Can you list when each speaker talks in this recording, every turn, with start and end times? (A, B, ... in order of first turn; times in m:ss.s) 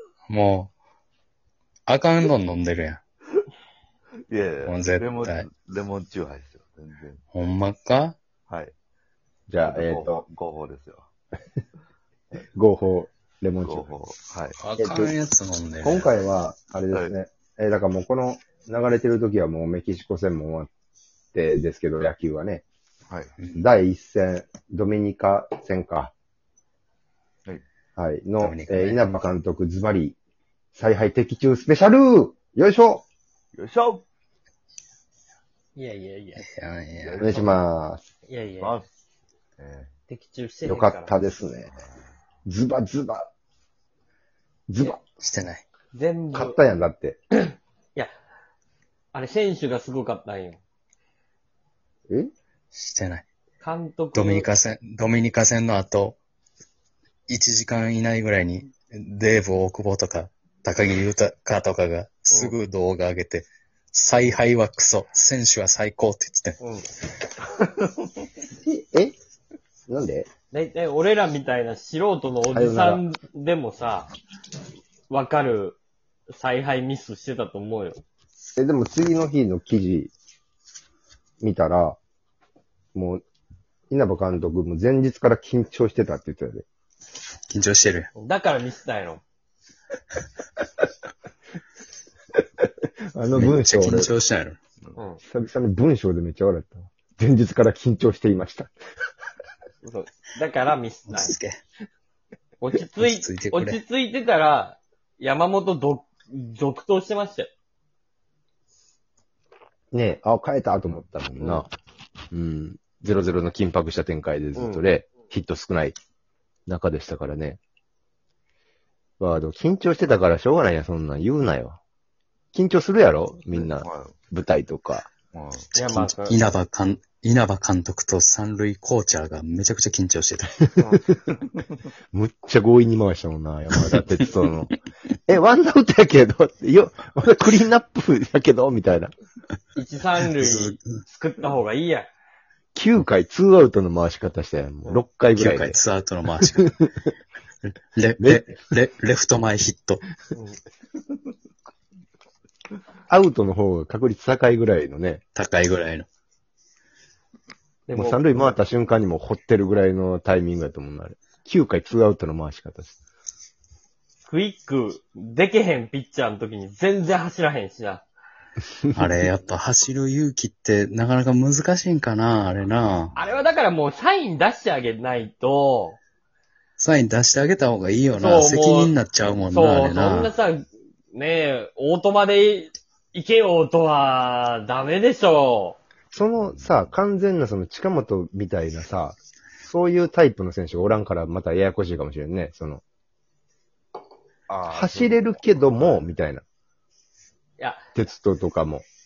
0:00.3-0:00.7 A
0:01.9-0:03.0 A
0:04.3-0:07.2 B
0:04.6-0:05.5 A
0:07.3-0:08.2 A
0:08.5-0:08.7 B
0:09.5-0:10.3 C
0:09.6-0:11.1 B
0:12.6-0:13.9 C
0:13.6-0:14.6 B
0:14.6-0:16.1 A
0:14.8-0:15.1 C
0:15.8-0:20.7 C
0:16.9-0:17.2 B
0:21.3-0:22.6 C
0:23.6-0:26.1 C
0:28.0-0:30.2 C
0:28.4-0:29.1 A
0:30.7-0:33.0 C
0:33.5-0:34.0 B
0:35.8-0:36.5 D
0:36.4-0:37.3 A
0:37.0-0:37.6 B
0:37.2-0:38.0 C
0:38.3-0:38.8 D
0:38.6-0:38.9 B
0:39.6-0:39.9 B
0:40.1-0:41.1 D
0:40.7-0:41.7 C
0:42.5-0:43.3 C
0:44.7-0:45.0 C
0:45.2-0:45.6 A
0:45.9-0:46.6 D
0:46.3-0:47.2 C
0:47.4-0:48.1 D
0:49.1-0:50.6 D
0:52.7-0:53.3 A
0:53.6-0:54.5 D
0:54.1-0:56.2 A
0:57.3-1:06.6 A
1:06.6-1:06.9 D
1:08.5-1:09.2 C
1:09.9-1:10.3 C
1:10.5-1:14.1 D
1:12.5-1:13.0 C
1:15.1-1:15.8 D
1:16.3-1:18.0 D
1:18.6-1:20.1 C
1:21.4-1:22.0 C
1:22.9-1:23.2 C
1:23.9-1:26.6 C
1:27.5-1:28.1 A
1:28.2-1:29.2 D
1:32.6-1:34.1 C
1:33.3-1:34.6 A
1:35.2-1:38.7 C
1:39.8-1:41.3 D
1:41.1-1:41.6 A
1:42.6-1:47.5 D
1:43.0-1:43.8 A
1:49.9-1:51.7 C
1:52.3-1:56.0 C
1:54.6-1:54.8 D
1:56.7-1:57.6 C
1:59.2-2:01.8 C
2:02.5-2:05.1 C
2:03.5-2:04.2 B
2:05.3-2:05.7 B
2:05.7-2:10.8 A
2:05.8-2:06.4 D
2:10.8-2:11.8 B
2:12.1-2:19.1 C
2:19.8-2:22.1 D
2:20.4-2:20.9 A
2:22.8-2:25.8 C
2:25.3-2:26.9 A
2:26.6-2:27.1 C
2:27.7-2:30.1 A
2:28.2-2:28.6 C
2:33.1-2:35.2 C
2:35.4-2:36.1 A
2:37.9-2:38.5 D
2:37.9-2:43.0 C
2:44.3-2:48.0 D
2:48.9-2:53.2 A
2:53.2-2:56.0 D
2:56.8-3:00.3 A
2:58.1-2:59.0 D
2:59.5-3:05.8 D
3:06.1-3:12.8 C
3:06.4-3:06.9 B
3:14.5-3:16.1 B
3:14.7-3:16.4 C
3:18.0-3:18.8 C